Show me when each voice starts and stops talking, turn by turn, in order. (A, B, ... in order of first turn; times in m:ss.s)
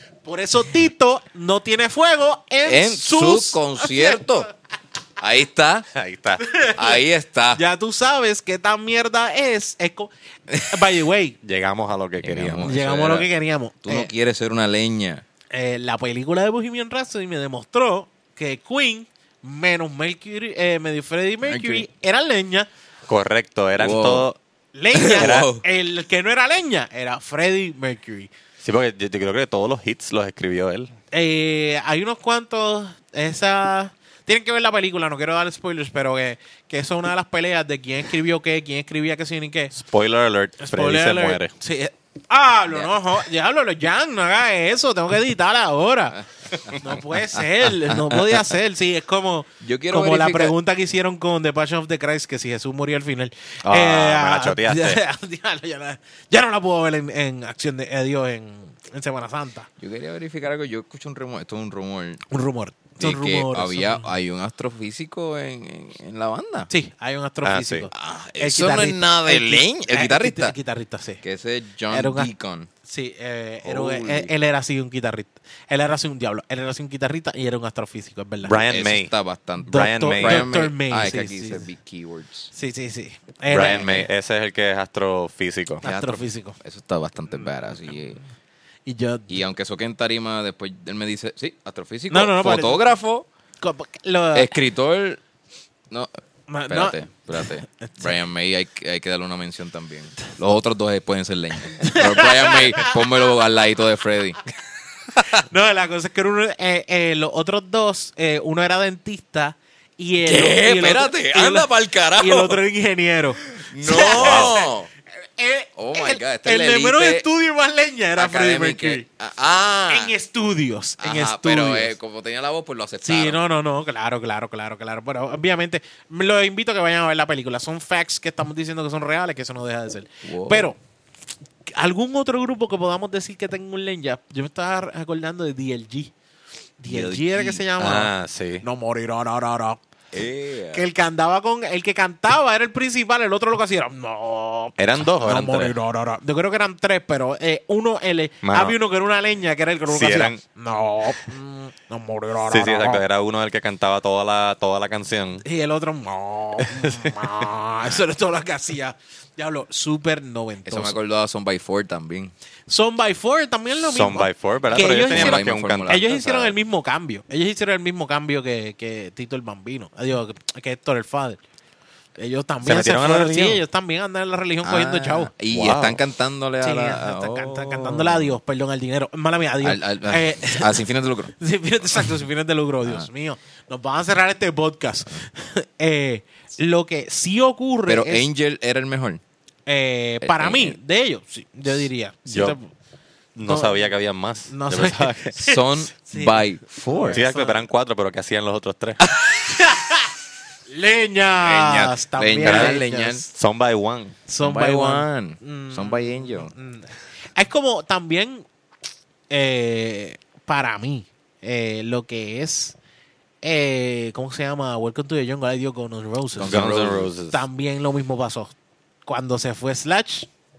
0:00.2-0:04.4 A
0:02.7-0:04.5 B
0:05.2-0:05.9 B
0:05.9-0:06.4 C
0:06.4-0:07.0 A
0:06.7-0:07.6 B
0:07.5-0:11.4 A
0:11.4-0:13.3 C
0:12.2-0:13.0 B
0:12.6-0:14.1 A
0:13.8-0:15.2 B
0:15.5-0:22.7 A
0:21.4-0:21.8 B
0:23.1-0:24.4 C
0:23.8-0:24.3 B
0:24.7-0:28.3 A
0:24.9-0:25.6 B
0:25.2-0:25.5 C
0:28.6-0:30.9 C
0:31.1-0:39.8 A
0:39.8-0:41.5 C
0:40.6-0:59.7 A
0:49.6-0:50.6 B
0:53.6-0:55.0 C
0:59.8-1:02.2 B
1:02.3-1:04.1 A
1:03.0-1:06.7 B
1:06.7-1:11.2 A
1:07.4-1:07.9 C
1:07.9-1:10.6 B
1:11.2-1:12.7 B
1:11.9-1:12.3 A
1:12.8-1:18.6 A
1:13.6-1:14.3 B
1:18.4-1:19.1 C
1:18.7-1:22.5 B
1:19.7-1:20.5 C
1:19.7-1:21.7 A
1:22.5-1:24.0 A
1:23.5-1:25.9 C
1:23.6-1:24.1 B
1:25.8-1:26.6 A
1:25.8-1:28.2 B
1:28.9-1:29.4 A
1:29.3-1:33.3 B
1:32.1-1:32.8 A
1:33.6-1:34.5 A
1:34.3-1:35.2 B
1:36.5-1:38.2 A
1:36.7-1:44.4 B
1:41.8-1:43.0 A
1:45.2-1:54.7 A
1:50.2-1:52.6 B
1:53.5-1:54.9 B
1:54.2-1:54.6 C
1:55.4-1:59.0 A
1:55.8-1:57.3 B
1:58.2-2:00.1 B
1:59.9-2:01.9 A
2:01.0-2:03.4 B
2:03.0-2:10.8 A
2:10.3-2:10.7 B
2:11.7-2:16.1 A
2:16.8-2:19.8 A
2:16.9-2:17.7 B
2:17.8-2:18.6 C
2:20.1-2:20.9 B
2:20.7-2:33.0 A
2:24.8-2:25.7 C
2:28.4-2:28.8 C
2:29.9-2:30.4 C
2:32.5-2:35.4 C
2:35.4-2:41.0 A
2:36.6-2:37.3 C
2:40.7-2:42.3 B
2:42.7-2:51.4 A
2:43.9-2:46.5 C
2:44.7-2:46.1 B
2:52.2-2:55.3 A
2:52.6-2:53.6 C
2:54.6-2:58.4 B
2:55.5-2:56.0 C
2:56.6-3:00.9 A
2:59.6-3:01.4 B
3:01.4-3:08.3 A
3:07.9-3:09.2 B
3:09.7-3:12.7 A
3:10.2-3:10.8 B
3:12.3-3:12.6 C
3:13.4-3:15.4 C
3:13.5-3:13.9 A
3:14.5-3:17.7 A
3:15.4-3:17.2 B
3:17.1-3:19.0 C
3:19.3-3:20.1 A
3:20.7-3:23.3 A
3:21.5-3:21.9 C
3:21.8-3:23.2 B
3:22.4-3:22.8 C
3:23.3-3:24.2 C
3:24.3-3:28.5 A
3:24.4-3:26.5 B
3:29.3-3:32.8 A
3:33.4-3:36.7 A
3:36.4-3:37.1 B
3:36.4-3:37.4 C
3:37.3-3:38.5 A
3:39.1-3:40.3 A